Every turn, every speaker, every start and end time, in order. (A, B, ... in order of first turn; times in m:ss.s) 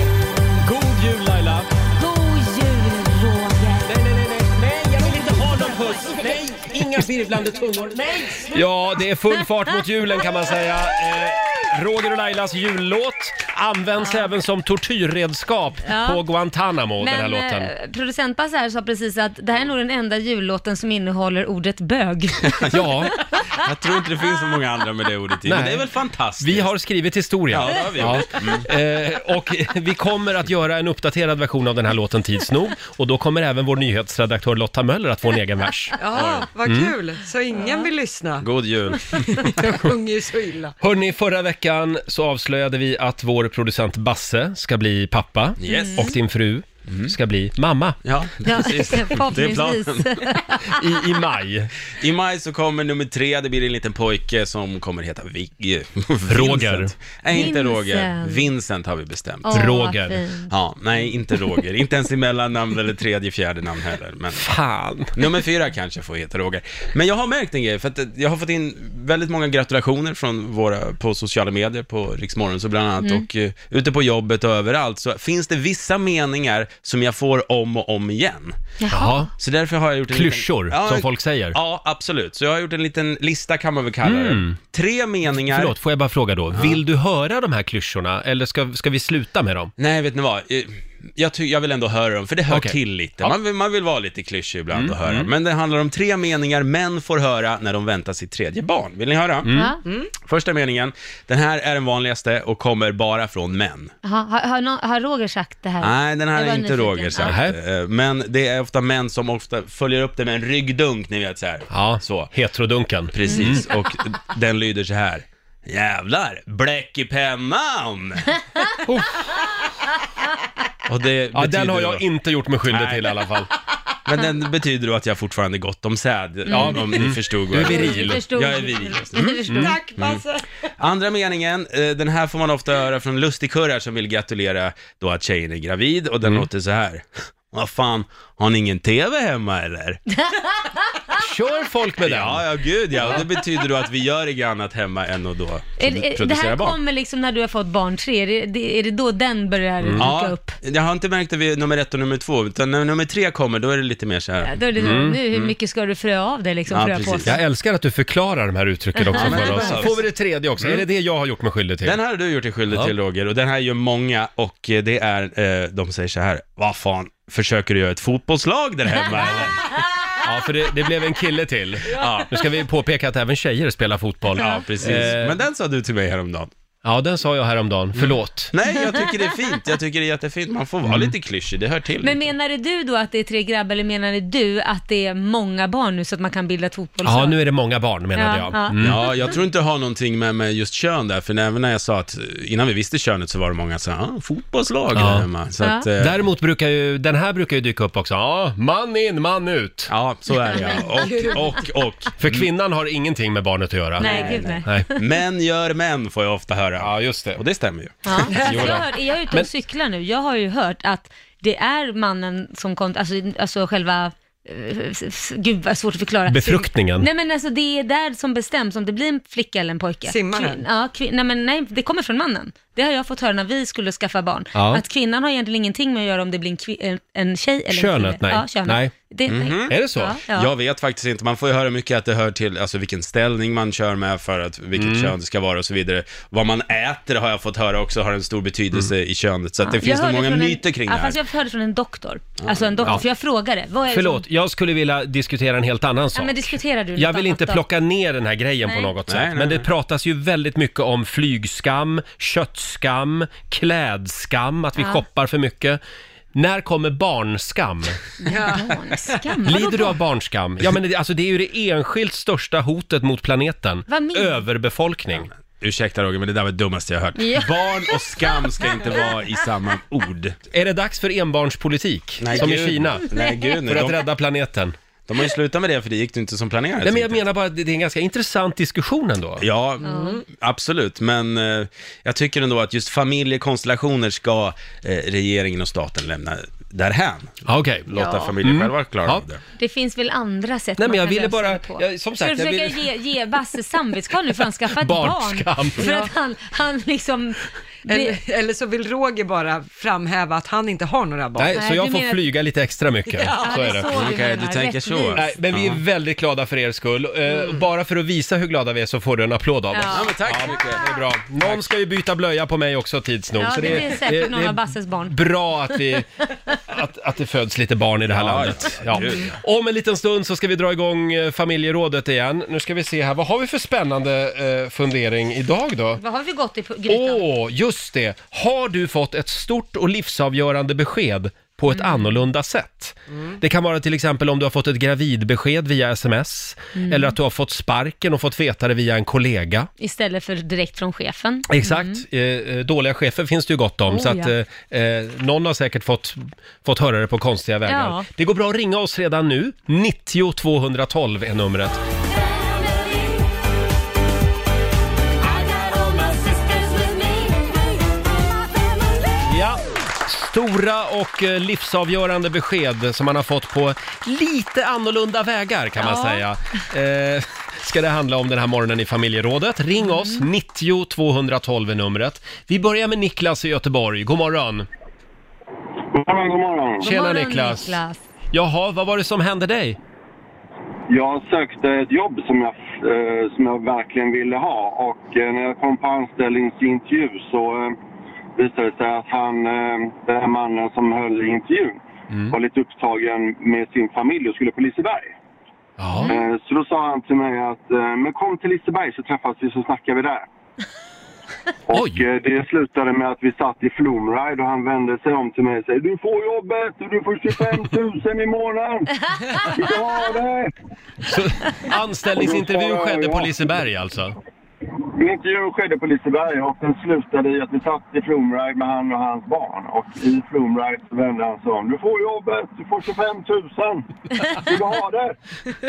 0:00.6-0:01.7 A
0:02.0-0:03.9 B
0:03.8-0:17.7 A
0:05.3-0:06.2 B
0:15.8-0:16.2 B
0:17.0-0:23.5 B
0:22.5-0:22.8 C
0:22.7-0:23.1 A
0:23.5-0:26.7 C
0:25.4-0:25.8 A
0:26.4-0:36.0 A
0:27.5-0:28.7 C
0:36.0-0:38.5 D
0:36.1-0:36.5 C
0:36.6-0:36.9 A
0:38.4-0:39.5 C
0:39.2-0:40.8 D
0:40.8-0:48.0 A
0:45.6-0:46.1 C
0:45.6-0:46.1 B
0:46.9-0:47.1 C
0:48.0-0:50.4 C
0:48.4-0:50.8 B
0:50.6-0:51.7 A
0:52.0-0:59.7 C
0:56.3-0:56.9 A
0:57.3-0:58.5 B
0:59.4-1:00.5 B
0:59.5-1:00.2 A
1:00.5-1:04.5 C
1:04.4-1:05.1 A
1:05.1-1:18.6 C
1:18.8-1:19.3 B
1:18.9-1:19.3 A
1:19.3-1:25.8 C
1:20.1-1:21.6 A
1:24.0-1:24.6 A
1:25.3-1:29.7 A
1:26.5-1:26.8 C
1:29.8-1:39.6 C
1:32.5-1:33.3 A
1:34.7-1:35.3 A
1:39.4-1:39.7 A
1:39.5-1:39.8 B
1:40.1-1:43.9 C
1:44.0-1:47.3 B
1:45.8-1:52.3 C
1:47.2-1:47.6 A
1:51.7-1:53.6 A
1:53.1-1:58.2 C
1:58.8-1:59.2 A
2:00.8-2:02.0 C
2:01.3-2:03.5 A
2:02.7-2:03.2 C
2:04.0-2:10.2 C
2:06.5-2:06.8 B
2:06.5-2:08.2 A
2:07.6-2:09.8 B
2:09.4-2:09.8 A
2:09.5-2:10.4 D
2:10.8-2:20.0 C
2:20.1-2:21.2 B
2:21.2-2:22.4 A
2:22.0-2:26.8 C
2:25.8-2:30.6 B
2:29.8-2:30.1 A
2:30.0-2:35.5 C
2:34.4-2:37.3 B
2:34.8-2:35.2 A
2:36.7-2:37.4 C
2:37.2-2:42.0 A
2:39.0-2:39.8 B
2:39.2-2:40.8 C
2:41.8-2:49.8 C
2:50.2-2:55.4 A
2:51.9-2:52.4 C
2:54.3-2:56.5 C
2:56.8-2:58.5 A
2:57.9-3:02.3 C
3:00.8-3:01.1 A
3:02.0-3:07.4 B
3:07.0-3:09.0 A
3:08.2-3:09.1 B
3:08.8-3:16.2 C
3:14.9-3:15.3 A
3:15.6-3:15.9 B
3:16.0-3:19.9 A
3:19.9-3:22.5 C
3:20.6-3:21.5 D
3:22.2-3:24.9 A
3:24.0-3:25.0 B
3:24.0-3:24.5 D
3:24.0-3:28.8 C
3:26.8-3:27.4 A
3:28.0-3:50.5 B
3:28.3-3:28.6 D
3:28.4-3:29.5 A
3:36.3-3:37.1 A
3:40.0-3:40.6 D
3:44.5-3:44.8 A
3:47.7-3:48.9 A
3:49.3-4:01.2 C
3:49.7-3:50.2 A
3:54.8-3:55.1 A
3:59.6-4:04.2 B
4:02.4-4:03.0 C
4:03.9-4:15.8 A
4:06.1-4:07.6 B
4:08.6-4:08.9 B
4:09.1-4:09.7 C
4:14.8-4:15.0 B
4:16.3-4:18.0 A
4:18.2-4:20.0 B
4:18.2-4:19.2 D
4:19.4-4:25.3 A
4:23.9-4:24.4 B
4:25.6-4:30.4 C
4:27.2-4:29.1 B
4:30.5-4:33.0 A
4:32.2-4:34.1 C
4:33.1-4:33.6 B
4:33.7-4:34.8 A
4:35.1-4:37.2 C
4:36.8-4:39.4 A
4:39.4-4:49.4 C
4:39.8-4:40.2 B
4:39.8-4:40.2 D
4:47.4-4:47.9 A
4:47.9-4:48.3 B
4:48.4-4:49.2 A
4:49.6-4:58.2 B
4:50.8-4:52.8 A
4:54.7-4:55.9 A
4:55.8-4:56.1 D
4:57.9-5:01.6 D
5:01.4-5:03.9 A
5:01.5-5:02.2 B
5:03.2-5:05.3 B
5:03.2-5:03.8 D
5:03.9-5:05.8 C
5:05.2-5:26.0 A
5:09.8-5:10.1 B
5:09.9-5:11.7 C
5:13.4-5:15.3 B
5:18.1-5:19.4 C
5:26.0-5:27.2 B
5:26.9-5:39.7 A
5:31.7-5:32.2 B
5:36.8-5:37.1 B
5:39.8-5:42.0 B
5:41.5-5:51.8 A
5:43.9-5:44.3 B
5:47.6-5:48.1 B
5:52.5-5:52.9 B
5:55.6-5:57.3 B
5:59.2-6:14.7 A
6:05.8-6:06.2 B
6:09.8-6:10.3 B
6:15.9-6:16.9 E
6:16.8-6:17.8 A
6:16.8-6:18.0 B
6:18.3-6:19.8 A
6:20.9-6:27.7 E
6:28.4-6:35.1 E
6:35.8-6:36.1 A
6:36.1-6:40.3 E
6:41.7-6:50.5 E
6:41.7-6:42.0 A
6:51.0-6:54.2 A
6:52.1-6:53.6 E
6:54.9-7:05.2 E